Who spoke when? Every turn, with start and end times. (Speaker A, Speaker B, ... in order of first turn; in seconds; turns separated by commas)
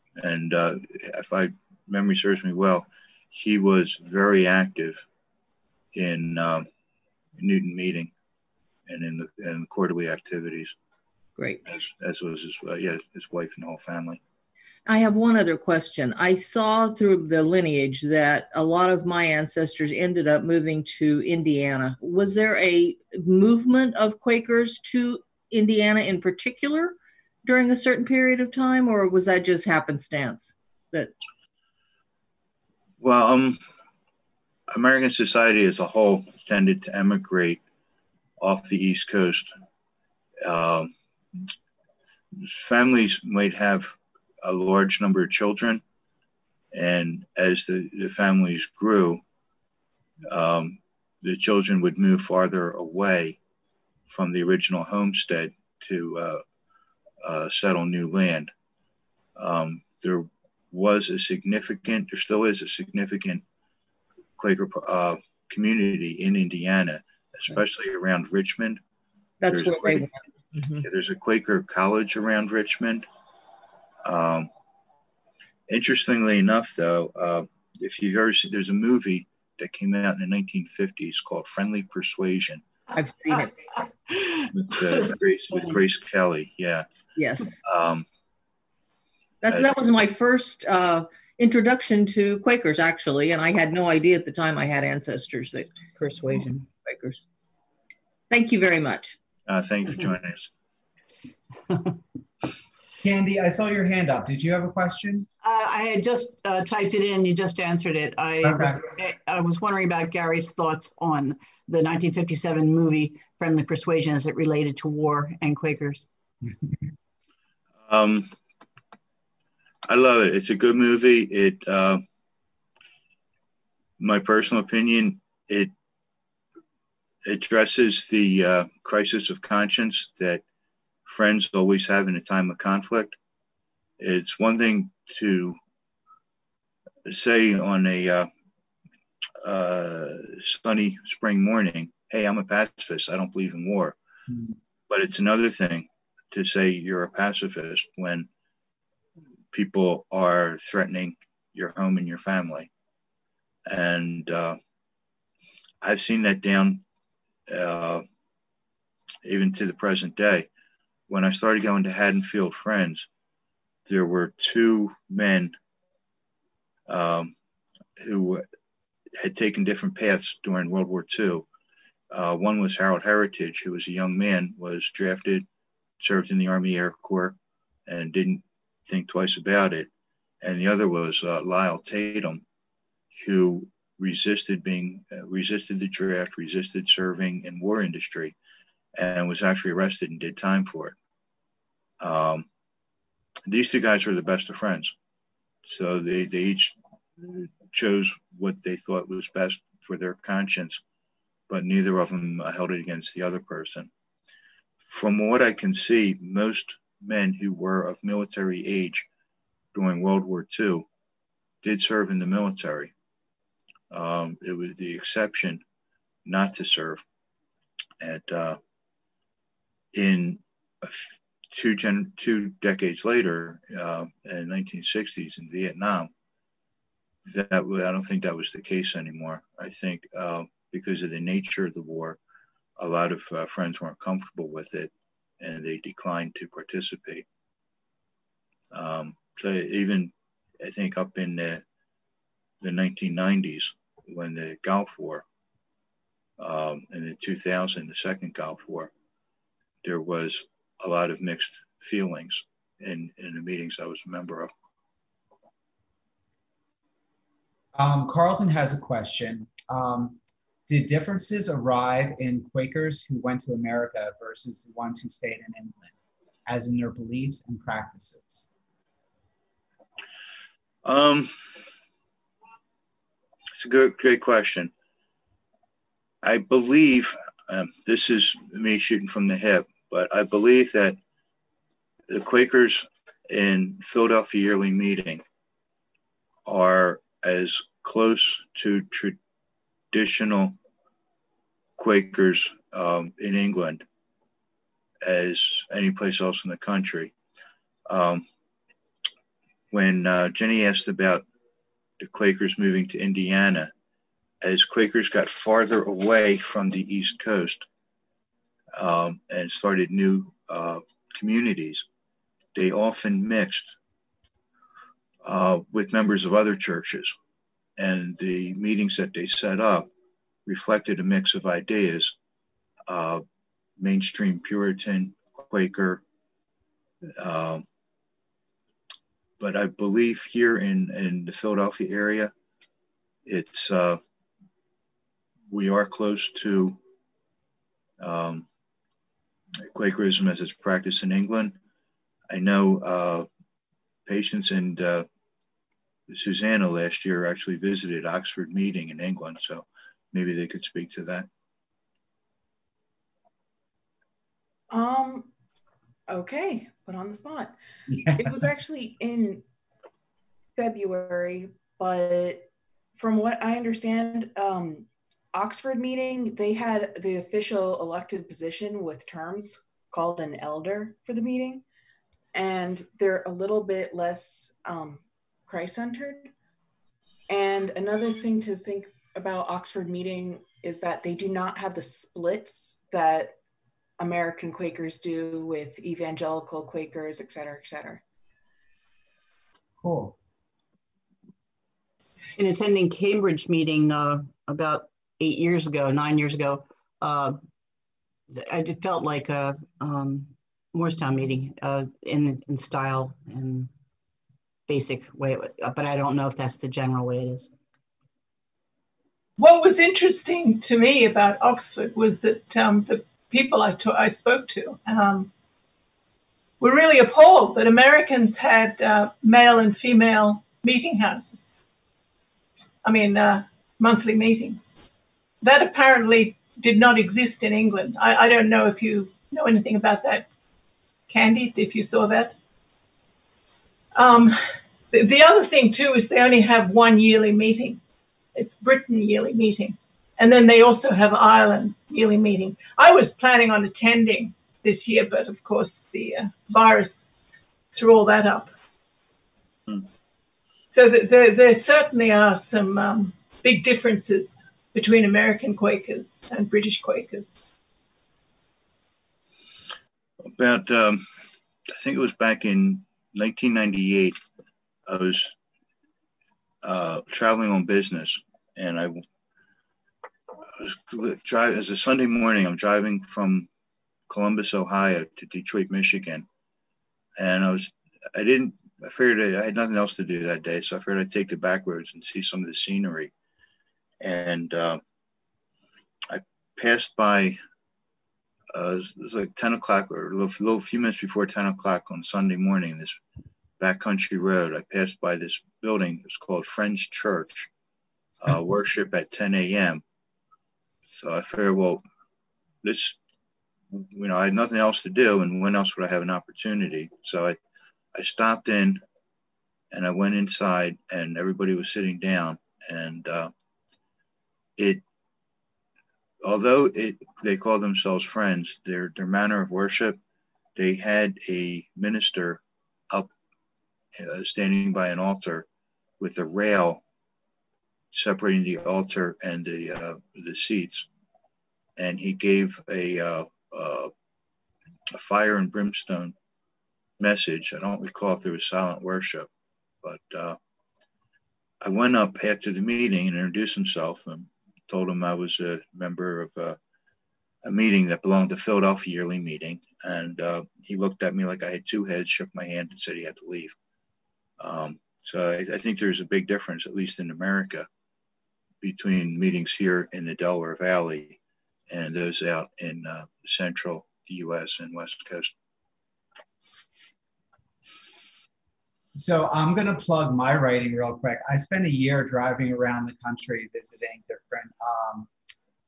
Speaker A: 0.2-5.0, Speaker A: 5.9-6.7, Speaker A: 7.4-8.1, Speaker A: 8.9-10.8, Speaker B: 11.4-11.6, Speaker A: 11.7-14.2, Speaker B: 14.9-31.1, Speaker A: 33.0-33.6, Speaker A: 34.7-37.6, Speaker A: 38.4-39.5, Speaker A: 40.4-40.9, Speaker A: 42.4-45.8, Speaker A: 46.7-49.2, Speaker A: 50.3-53.4, Speaker A: 54.1-56.4, Speaker A: 57.2-58.5, Speaker A: 59.4-63.4, Speaker A: 64.4-68.8, Speaker B: 69.4-70.9, Speaker A: 69.5-70.1, Speaker A: 70.8-73.1, Speaker A: 74.0-74.5, Speaker A: 75.7-82.6, Speaker B: 82.9-83.7, Speaker C: 84.1-85.1, Speaker A: 84.5-86.9, Speaker B: 87.2-87.6, Speaker A: 87.6-88.1, Speaker B: 89.4-97.2, Speaker A: 89.5-89.8, Speaker B: 98.3-99.2, Speaker A: 99.5-100.5, Speaker D: 103.0-105.3, Speaker C: 105.4-116.1, Speaker D: 108.4-108.9, Speaker A: 117.9-118.3, Speaker A: 119.9-122.0, Speaker A: 124.0-125.7, Speaker A: 127.2-130.4, Speaker A: 131.1-133.2, Speaker A: 134.0-135.6, Speaker A: 137.1-138.3, Speaker A: 139.4-144.0, Speaker D: 144.3-144.6, Speaker A: 144.9-148.3, Speaker A: 149.5-152.7, Speaker A: 153.7-154.6, Speaker A: 155.8-156.8, Speaker A: 157.5-158.0, Speaker A: 159.2-160.5, Speaker A: 161.1-163.1, Speaker A: 163.9-165.5, Speaker A: 166.9-167.3, Speaker A: 168.0-168.4, Speaker A: 169.2-171.5, Speaker A: 172.1-175.5, Speaker A: 176.0-177.4, Speaker A: 177.9-179.9, Speaker A: 180.4-182.4, Speaker A: 183.1-188.4, Speaker A: 189.0-191.0, Speaker A: 192.0-192.5, Speaker A: 193.5-194.9, Speaker A: 195.6-200.8, Speaker A: 201.5-203.9, Speaker A: 204.8-209.1, Speaker A: 209.7-210.9, Speaker A: 211.6-212.9, Speaker A: 213.9-215.6, Speaker A: 216.2-217.0, Speaker A: 218.0-218.6, Speaker A: 219.9-226.1, Speaker A: 227.3-232.2, Speaker A: 232.8-237.3, Speaker A: 238.7-241.6, Speaker A: 242.6-245.3, Speaker A: 246.4-248.9, Speaker A: 249.8-254.5, Speaker D: 257.8-265.9, Speaker D: 266.5-268.5, Speaker A: 270.8-271.3, Speaker A: 273.6-274.7, Speaker A: 276.2-281.0, Speaker A: 282.1-285.2, Speaker A: 286.5-289.2, Speaker A: 289.9-290.6, Speaker A: 291.8-293.9, Speaker A: 295.0-297.1, Speaker A: 297.9-298.2, Speaker A: 299.7-301.3, Speaker A: 302.0-303.7, Speaker A: 304.4-307.7, Speaker A: 308.8-311.9, Speaker A: 312.5-313.8, Speaker A: 315.2-317.2, Speaker A: 317.8-319.9, Speaker A: 320.5-322.1, Speaker A: 322.9-323.2, Speaker A: 323.8-326.0, Speaker A: 327.2-327.6, Speaker A: 329.4-332.3, Speaker A: 333.3-334.0, Speaker A: 335.5-336.8, Speaker A: 338.0-338.5, Speaker A: 339.6-341.6, Speaker A: 342.3-343.3, Speaker A: 344.1-345.1, Speaker A: 346.1-351.3, Speaker E: 354.7-355.3, Speaker E: 356.1-357.6, Speaker D: 357.9-358.3, Speaker E: 358.1-359.4, Speaker E: 360.6-371.6, Speaker E: 372.3-376.3, Speaker E: 377.3-383.4, Speaker E: 384.0-388.0, Speaker D: 389.8-390.1, Speaker C: 392.4-397.4, Speaker C: 398.3-403.7, Speaker C: 404.7-407.5, Speaker F: 409.4-415.3, Speaker F: 416.6-421.5, Speaker F: 422.8-424.7, Speaker F: 425.4-430.3, Speaker F: 431.1-432.4, Speaker F: 433.9-437.8, Speaker F: 438.4-447.1, Speaker F: 447.7-448.5, Speaker F: 450.7-457.5, Speaker A: 460.4-461.0, Speaker A: 461.8-464.2, Speaker A: 464.9-465.4, Speaker A: 466.6-469.0, Speaker A: 470.6-473.5, Speaker A: 474.1-476.3, Speaker A: 477.2-483.1, Speaker A: 484.0-484.8, Speaker A: 486.1-487.4, Speaker A: 488.5-493.0, Speaker A: 493.6-497.5, Speaker A: 498.2-499.8, Speaker A: 500.9-501.8, Speaker A: 502.6-503.0, Speaker A: 503.7-507.4, Speaker A: 507.9-508.8, Speaker A: 509.7-513.3, Speaker A: 514.6-514.8, Speaker A: 516.2-520.0, Speaker A: 520.6-523.1, Speaker A: 524.0-525.5, Speaker A: 526.0-526.8, Speaker A: 527.9-530.9, Speaker A: 531.8-533.9, Speaker A: 534.9-536.1, Speaker A: 537.0-539.3, Speaker A: 539.8-540.4, Speaker A: 541.6-546.6, Speaker A: 547.4-553.6, Speaker A: 554.4-557.7, Speaker A: 558.6-565.3, Speaker D: 569.0-575.1